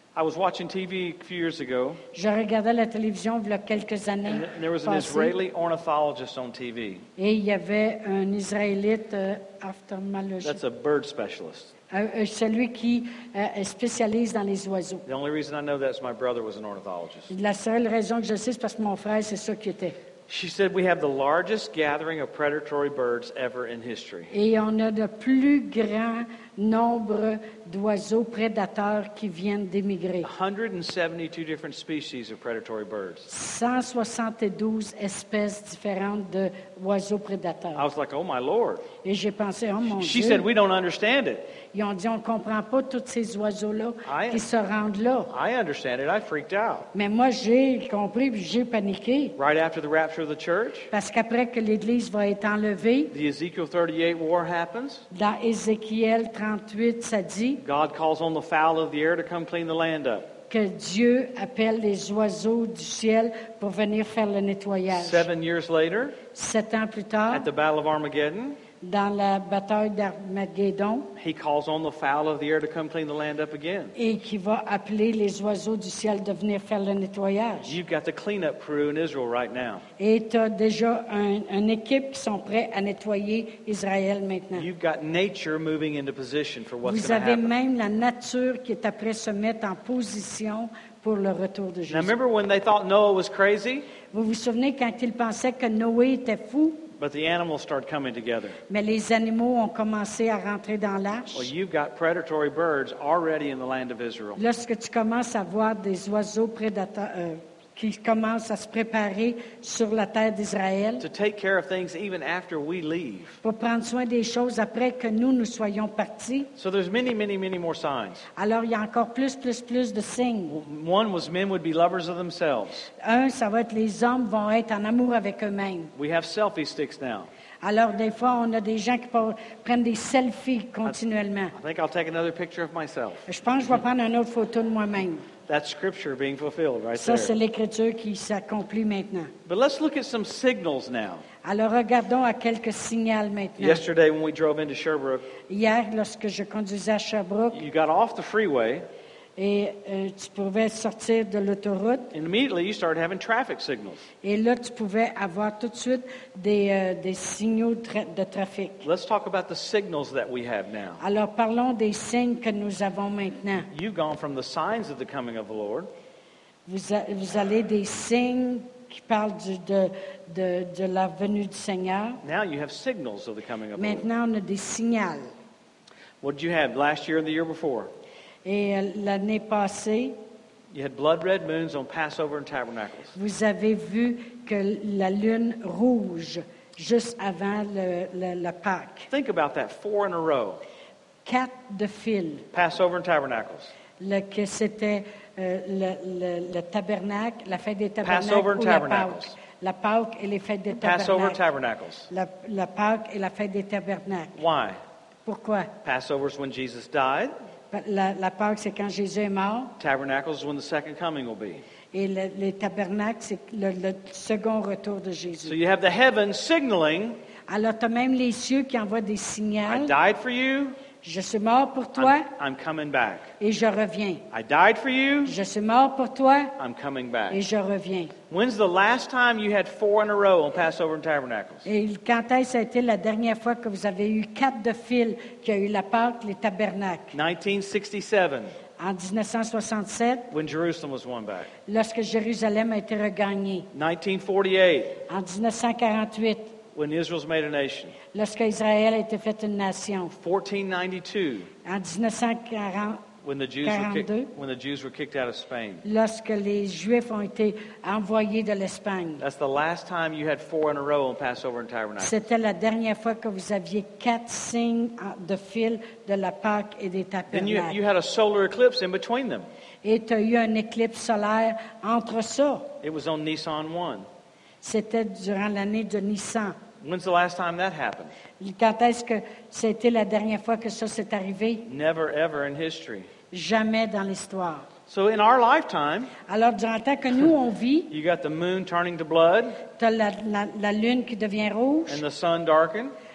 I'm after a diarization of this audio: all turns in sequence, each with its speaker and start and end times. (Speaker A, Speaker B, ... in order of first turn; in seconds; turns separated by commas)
Speaker A: 0.1-2.0, Speaker B: 2.1-5.4, Speaker A: 4.3-7.1, Speaker B: 7.2-10.6, Speaker A: 10.4-11.7, Speaker B: 11.9-15.1, Speaker A: 15.1-17.3, Speaker B: 17.3-20.0, Speaker A: 20.3-24.3, Speaker B: 24.3-30.3, Speaker A: 30.2-33.3, Speaker B: 33.3-37.9, Speaker A: 37.8-38.9, Speaker B: 39.0-40.5, Speaker A: 39.8-41.5, Speaker B: 41.7-45.3, Speaker A: 44.0-44.4, Speaker A: 45.3-46.9, Speaker B: 46.9-49.4, Speaker A: 49.4-50.9, Speaker B: 50.9-53.1, Speaker A: 53.1-55.1, Speaker B: 55.1-57.6, Speaker A: 57.6-60.3, Speaker B: 60.5-65.3, Speaker A: 64.9-66.2, Speaker B: 66.3-67.5, Speaker A: 67.3-68.6, Speaker B: 68.8-71.1, Speaker A: 71.2-74.0, Speaker B: 74.0-77.8, Speaker A: 77.7-79.8, Speaker B: 80.0-84.7, Speaker A: 84.5-87.5, Speaker B: 86.8-92.1, Speaker A: 91.9-93.9, Speaker B: 94.1-96.9, Speaker A: 97.0-98.6, Speaker B: 98.7-101.5, Speaker A: 101.3-104.4, Speaker B: 104.4-111.0, Speaker A: 111.0-113.4, Speaker B: 113.4-116.5, Speaker A: 116.6-118.3, Speaker B: 118.4-120.6, Speaker A: 120.5-122.9, Speaker B: 123.0-125.9, Speaker A: 126.0-127.3, Speaker B: 127.6-131.6, Speaker A: 131.5-133.3, Speaker B: 133.3-135.3, Speaker A: 135.5-137.4, Speaker B: 136.9-139.3, Speaker A: 139.5-141.2, Speaker B: 141.4-143.8, Speaker A: 143.6-145.3, Speaker B: 145.5-147.6, Speaker A: 147.5-148.8, Speaker B: 149.4-152.1, Speaker A: 152.1-154.1, Speaker B: 154.2-158.9, Speaker A: 158.8-161.0, Speaker B: 161.0-163.7, Speaker A: 163.7-165.9, Speaker B: 166.7-172.2, Speaker A: 172.2-174.1, Speaker B: 173.8-175.3, Speaker A: 176.2-177.9, Speaker B: 178.4-180.2, Speaker A: 180.7-183.2, Speaker B: 183.2-189.1, Speaker A: 189.1-190.6, Speaker B: 191.2-192.5, Speaker A: 192.5-193.7, Speaker B: 194.0-201.4, Speaker A: 198.0-199.3, Speaker A: 200.8-202.1, Speaker B: 202.1-204.4, Speaker A: 204.4-204.8, Speaker B: 205.3-205.7, Speaker A: 205.8-207.3, Speaker B: 207.7-209.8, Speaker A: 209.8-211.6, Speaker B: 211.9-215.6, Speaker A: 215.4-217.2, Speaker B: 217.5-219.9, Speaker A: 219.7-220.8, Speaker B: 221.0-222.3, Speaker A: 222.0-223.3, Speaker B: 223.4-224.2, Speaker A: 224.3-225.4, Speaker B: 225.2-226.6, Speaker A: 226.6-227.4, Speaker B: 227.3-228.1, Speaker A: 228.3-231.7, Speaker B: 231.7-237.2, Speaker A: 237.1-238.5, Speaker B: 238.8-240.3, Speaker A: 240.3-241.5, Speaker B: 241.7-243.7, Speaker A: 243.7-245.0, Speaker B: 245.1-246.6, Speaker A: 246.8-248.0, Speaker B: 248.1-250.2, Speaker A: 250.2-251.5, Speaker B: 251.6-253.1, Speaker A: 253.2-255.8, Speaker B: 253.6-254.3, Speaker B: 255.8-259.2, Speaker A: 259.2-262.2, Speaker B: 262.0-267.8, Speaker A: 267.3-269.5, Speaker B: 269.8-272.8, Speaker A: 272.8-274.1, Speaker B: 274.6-276.6, Speaker A: 276.8-278.1, Speaker B: 278.4-281.7, Speaker A: 281.7-283.1, Speaker B: 283.3-284.7, Speaker A: 284.9-286.1, Speaker B: 286.3-287.9, Speaker A: 287.9-289.6, Speaker B: 289.8-292.0, Speaker A: 291.9-292.9